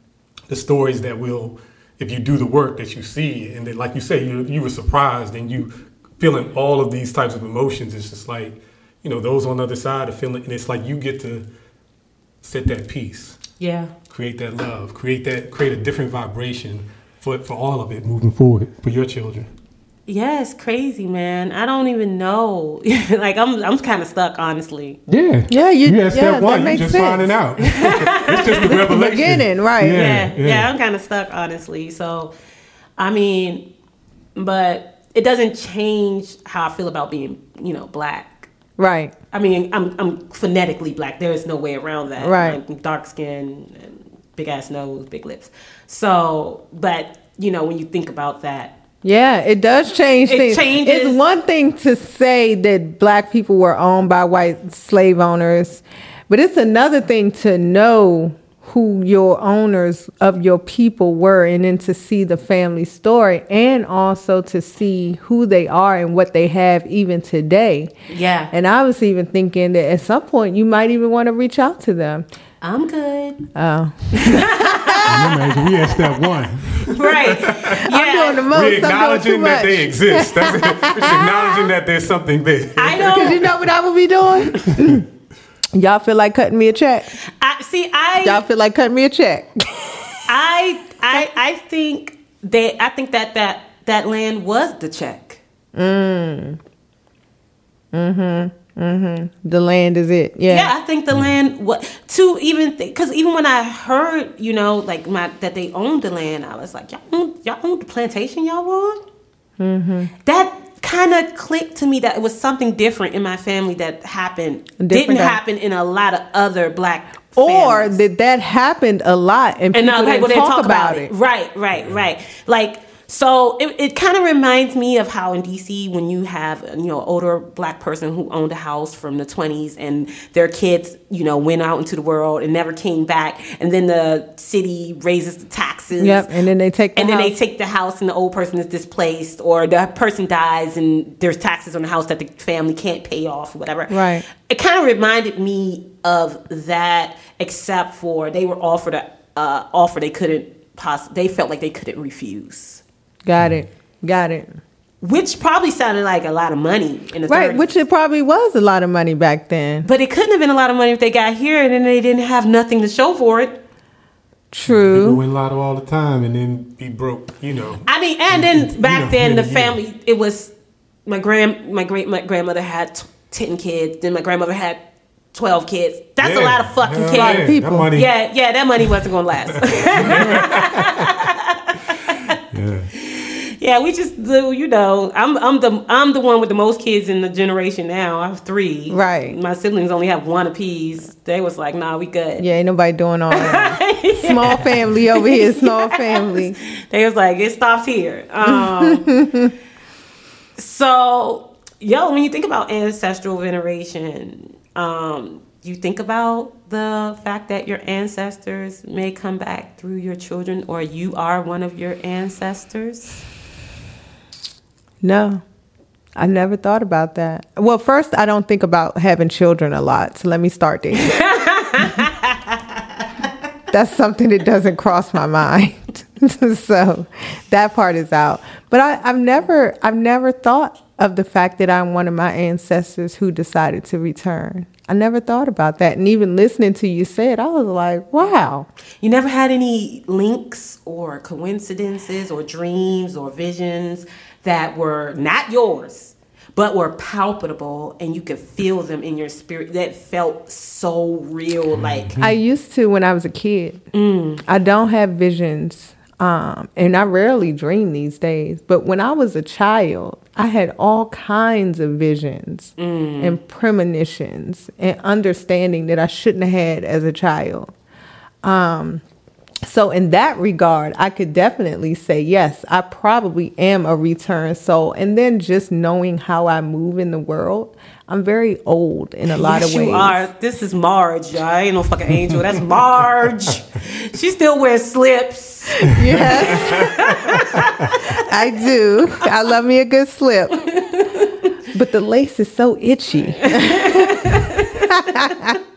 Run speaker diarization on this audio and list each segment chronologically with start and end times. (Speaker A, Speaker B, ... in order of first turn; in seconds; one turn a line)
Speaker A: 0.5-11.4
Speaker A: 12.4-13.4
Speaker B: 13.6-13.9
Speaker A: 14.1-19.5
Speaker B: 20.1-25.0
Speaker A: 25.1-30.7
Speaker C: 25.5-27.3
Speaker B: 27.6-28.8
Speaker C: 28.6-30.1
Speaker B: 29.9-32.3
Speaker B: 33.0-33.7
Speaker B: 34.3-38.5
Speaker C: 38.8-39.1
Speaker B: 39.3-48.7
Speaker C: 42.2-42.6
Speaker C: 49.0-67.9
Speaker B: 50.3-51.2
Speaker B: 68.1-68.5
Speaker C: 68.5-72.2
Speaker B: 72.6-73.4
Speaker C: 73.5-75.5
Speaker B: 74.1-75.3
Speaker A: 75.0-77.8
Speaker B: 76.9-78.5
Speaker C: 77.8-81.3
Speaker A: 78.5-83.6
Speaker B: 82.8-83.4
Speaker C: 83.0-85.0
Speaker A: 84.7-85.0
Speaker C: 85.7-87.1
Speaker B: 87.4-88.4
Speaker C: 88.2-90.2
Speaker B: 90.3-95.4
Speaker C: 95.7-96.6
Speaker C: 97.9-100.7
Speaker B: 100.5-109.0
Speaker C: 109.6-110.1
Speaker B: 110.2-118.0
Speaker C: 114.8-115.4
Speaker C: 117.4-121.1
Speaker B: 119.7-136.3
Speaker C: 136.0-137.3
Speaker B: 136.9-152.8
Speaker C: 143.9-144.2
Speaker C: 153.2-154.6
Speaker B: 155.0-157.7
Speaker C: 157.3-159.9
Speaker B: 159.8-163.6
Speaker C: 164.5-165.2
Speaker A: 164.7-169.8
Speaker B: 167.8-170.5
Speaker B: 171.1-174.8
Speaker B: 175.3-182.3
Speaker A: 176.2-178.1
Speaker C: 177.1-177.9
Speaker A: 179.8-181.1
Speaker A: 182.5-182.9
Speaker B: 182.9-192.4
Speaker C: 188.9-189.3
Speaker C: 192.4-196.6
Speaker B: 193.3-199.2
Speaker C: 198.4-199.5
Speaker B: 200.6-213.2
Speaker C: 215.0-215.4
Speaker C: 216.2-221.2
Speaker B: 221.0-223.0
Speaker C: 223.7-238.7
Speaker B: 239.0-252.1
Speaker A: 251.8-252.3
Speaker C: 252.2-253.8
Speaker B: 253.9-254.4
Speaker C: 254.4-267.7
Speaker B: 262.8-263.4
Speaker C: 268.4-269.0
Speaker C: 269.6-280.2
Speaker B: 279.3-288.2
Speaker C: 285.9-287.0
Speaker A: 285.9-287.4
Speaker C: 288.1-290.7
Speaker B: 290.7-291.4
Speaker C: 291.7-295.6
Speaker B: 293.4-294.9